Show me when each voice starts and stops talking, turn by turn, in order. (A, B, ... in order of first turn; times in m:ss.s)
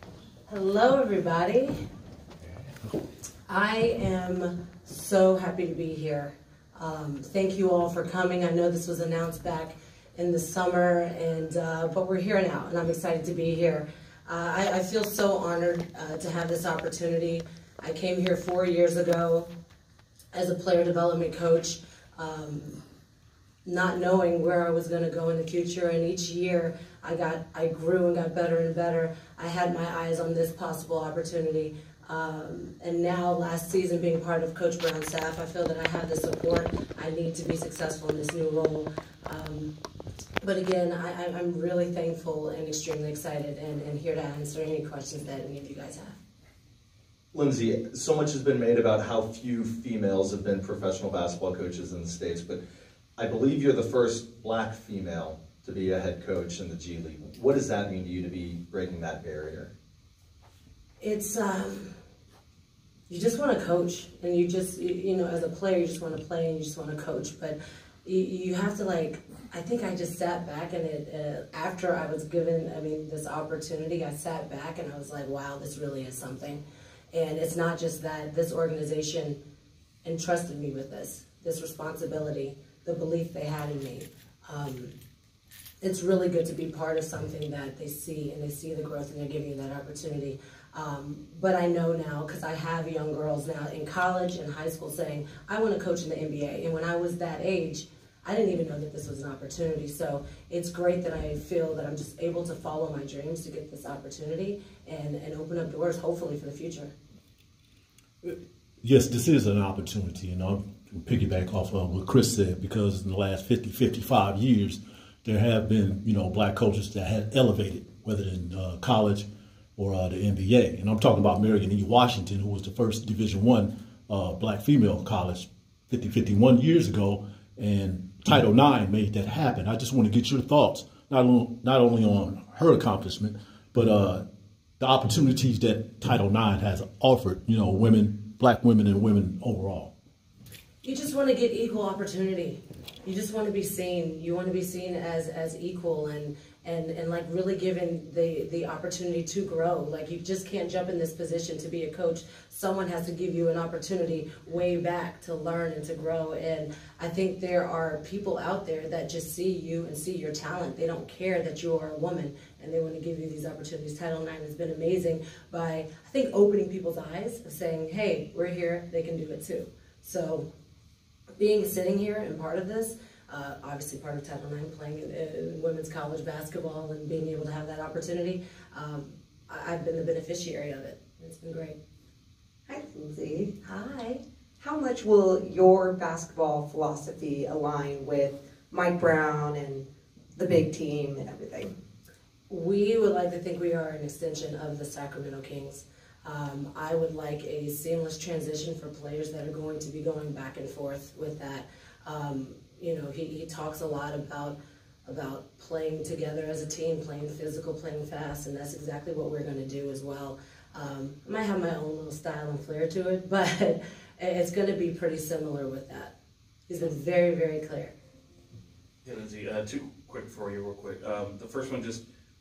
0:00.5-0:01.8 A
0:03.5-0:19.5 A
0:20.3-0:22.8 A
0:23.6-0:39.7 A
0:40.4-0:46.2 A
0:47.3-0:52.6 B
0:53.2-0:59.7 B
1:01.0-1:01.9 A
1:03.1-1:19.4 A
1:20.0-1:24.9 A
1:25.8-1:46.9 A
1:48.2-2:14.2 C
2:14.8-2:19.9 C
2:20.8-2:50.5 A
2:51.4-3:01.8 A
3:02.7-3:03.6 D
3:03.6-3:04.1 A
3:04.6-3:11.7 D
3:12.5-3:36.1 A
3:36.7-3:37.9 A
3:39.0-3:42.0 E